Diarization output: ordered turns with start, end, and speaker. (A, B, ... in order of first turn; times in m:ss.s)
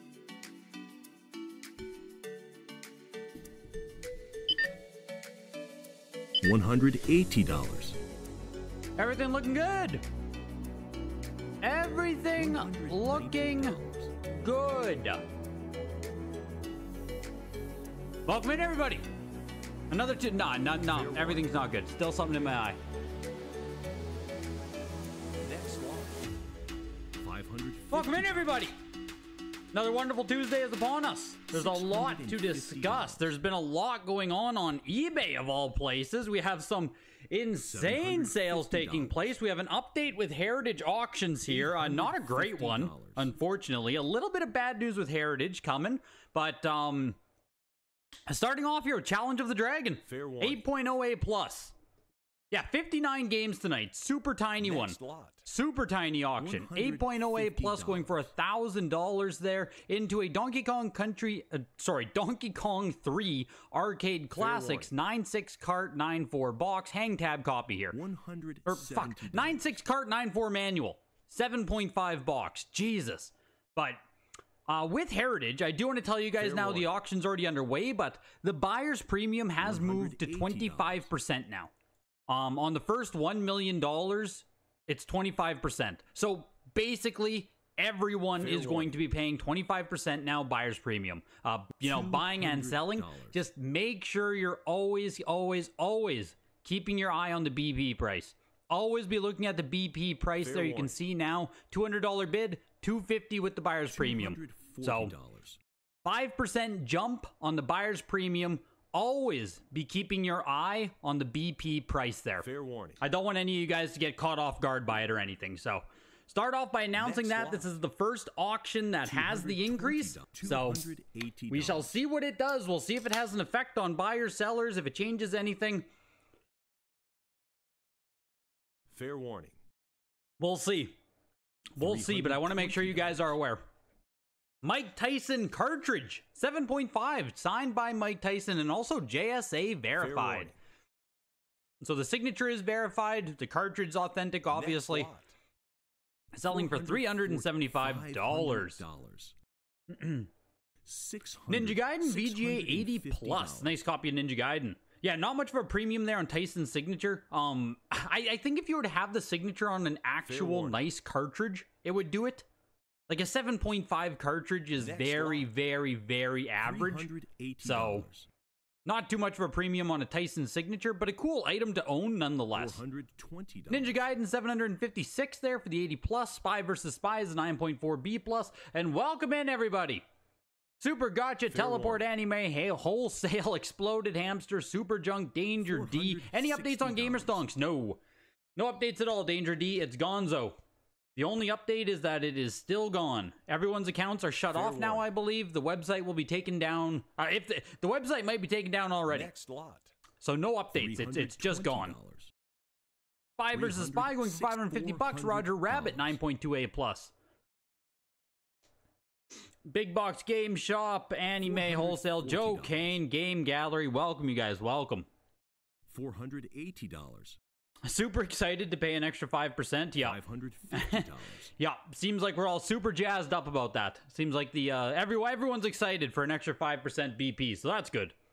0:06.4-0:08.0 A
0:09.0-0:10.0 B
0:11.6-0:13.8 B
0:12.3-0:14.2 A
0:14.4-0:15.2 B
0:18.2-0:19.0 B
0:19.9-0:22.8 B
0:20.7-0:21.5 A
0:25.4-0:26.2 A
0:27.2-0:28.6 A
0:27.9-0:28.7 B
0:29.7-0:47.2 B
0:31.5-0:33.3 A
0:37.5-0:39.4 A
0:41.4-0:43.3 A
0:48.3-0:51.7 B
0:50.0-0:50.6 A
0:52.5-1:08.0 B
0:54.6-0:55.4 A
0:56.4-0:58.3 A
1:04.4-1:04.9 A
1:07.9-1:09.8 A
1:08.6-1:14.0 B
1:14.7-1:21.7 B
1:16.4-1:16.9 A
1:19.6-1:21.1 A
1:22.3-1:45.1 B
1:28.4-1:28.9 A
1:31.8-1:33.4 A
1:40.4-1:41.0 A
1:43.9-1:45.6 A
1:46.0-1:52.4 B
1:52.4-1:53.0 A
1:53.0-2:00.9 B
1:57.0-1:57.7 A
1:59.0-2:01.9 A
2:01.5-2:05.9 B
2:08.9-2:09.6 A
2:10.4-2:11.0 B
2:11.8-2:13.6 B
2:11.8-2:13.4 A
2:14.6-2:20.5 B
2:20.0-2:20.5 A
2:21.8-2:25.1 B
2:24.5-2:25.3 A
2:26.3-2:28.8 B
2:26.5-2:29.3 A
2:29.9-2:30.3 B
2:30.8-2:33.8 A
2:31.5-2:42.4 B
2:40.2-2:40.8 A
2:43.1-2:48.1 B
2:44.8-2:45.5 A
2:46.6-2:48.3 A
2:48.8-2:52.8 B
2:52.5-2:54.0 A
2:53.7-3:00.0 B
3:00.8-3:08.0 B
3:01.5-3:02.0 A
3:05.6-3:07.5 A
3:08.6-3:10.6 B
3:11.2-3:19.3 B
3:14.5-3:15.0 A
3:19.1-3:19.9 A
3:20.2-3:22.0 B
3:20.7-3:22.3 A
3:23.4-3:27.1 B
3:23.5-3:26.2 A
3:29.6-3:35.1 B
3:31.4-3:33.0 A
3:35.9-3:37.4 A
3:37.8-3:48.1 B
3:40.0-3:41.5 A